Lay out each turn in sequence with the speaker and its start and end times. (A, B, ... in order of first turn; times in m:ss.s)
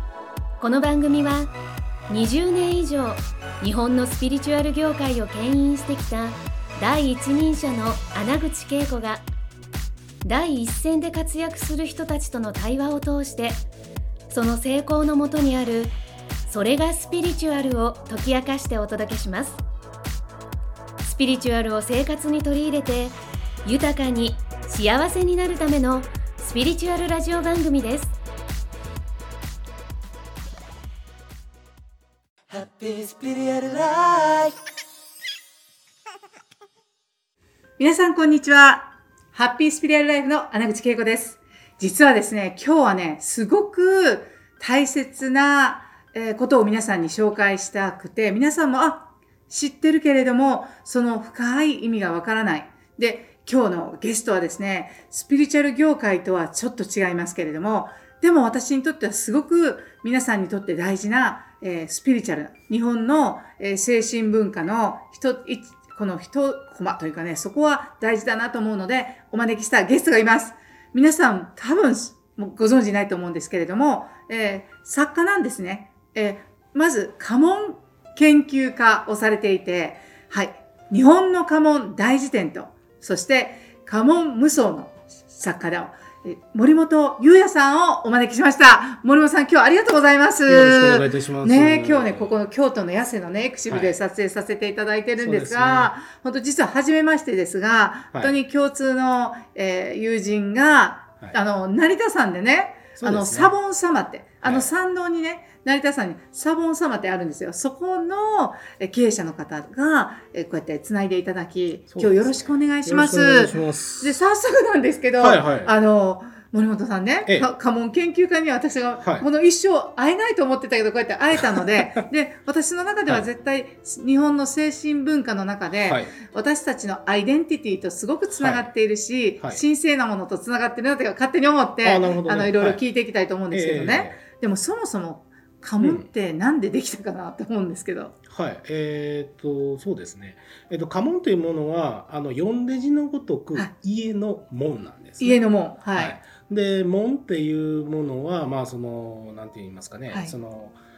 0:00.6-0:01.5 A
0:02.1-0:09.2 A
0:10.2-0:13.6 A
0:14.3-0:19.6 A
0:21.0-0:28.2 A
0:32.5-0:34.6 B
0:37.8-2:18.1 C
1:30.5-1:32.4 D
1:33.7-1:34.0 D
1:35.2-1:36.0 D
1:43.0-1:43.6 D
1:44.4-1:44.7 D
1:51.9-1:54.2 D
1:55.2-1:55.7 D
1:57.2-1:57.5 D
1:59.0-1:59.3 D
2:05.8-2:06.1 D
2:08.4-2:08.7 D
2:11.8-2:12.8 D
2:13.5-2:14.2 D
2:15.8-2:16.1 D
2:18.3-2:25.4 D
2:25.2-2:26.2 C
2:25.9-2:30.8 D
2:30.1-2:30.3 C